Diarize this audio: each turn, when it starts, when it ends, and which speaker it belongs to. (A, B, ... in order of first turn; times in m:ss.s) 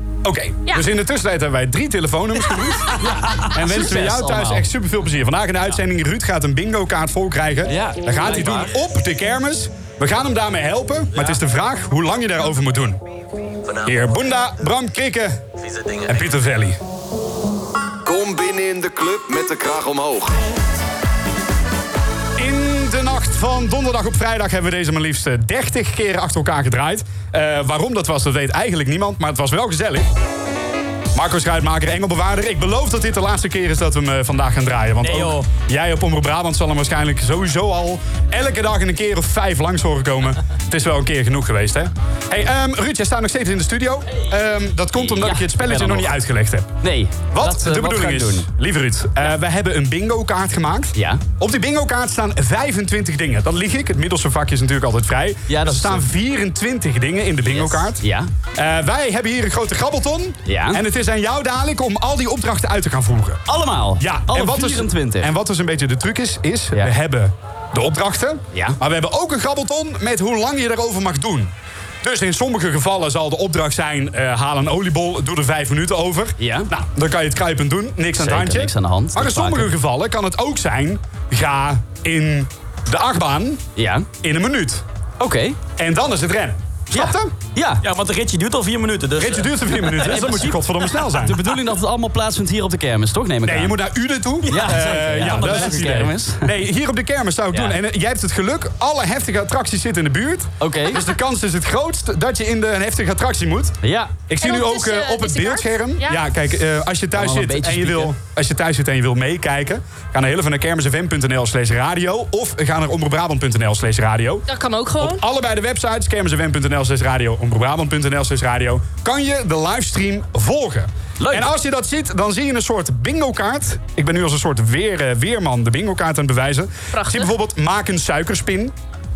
0:00.2-0:03.0 A
0:03.0-0:04.6 B
0:03.5-0:13.0 A
0:07.7-0:08.7 B
0:13.8-0:15.4 A
0:15.7-0:16.0 C
0:16.0-0:16.8 A
0:18.0-0:20.3 C
0:22.4-0:30.1 A
0:31.1-0:46.8 A
0:35.0-0:35.5 D
0:45.0-0:46.1 B
0:46.8-0:48.5 B
0:47.3-0:58.0 A
0:51.0-0:51.2 B
0:55.5-0:56.0 B
0:57.4-0:58.3 B
0:58.6-1:03.4 A
1:00.5-1:00.8 B
1:03.5-1:05.3 B
1:04.0-1:11.5 A
1:08.5-1:08.8 B
1:12.0-1:23.6 A
1:16.4-1:16.7 B
1:18.2-1:19.7 B
1:23.8-1:24.1 B
1:24.2-1:24.8 A
1:25.2-1:25.6 B
1:25.8-1:27.3 A
1:26.9-1:27.8 B
1:27.8-1:29.9 D
1:29.2-1:31.4 A
1:30.0-1:33.8 B
1:33.4-1:43.8 A
1:34.5-1:36.0 D
1:34.5-1:36.5 B
1:37.5-1:37.8 B
1:40.6-1:41.0 B
1:43.8-1:44.1 B
1:44.3-1:54.4 A
1:44.4-1:46.2 E
1:47.2-1:48.1 B
1:54.5-1:55.2 E
1:55.0-2:08.7 A
2:01.2-2:01.5 B
2:06.9-2:07.3 E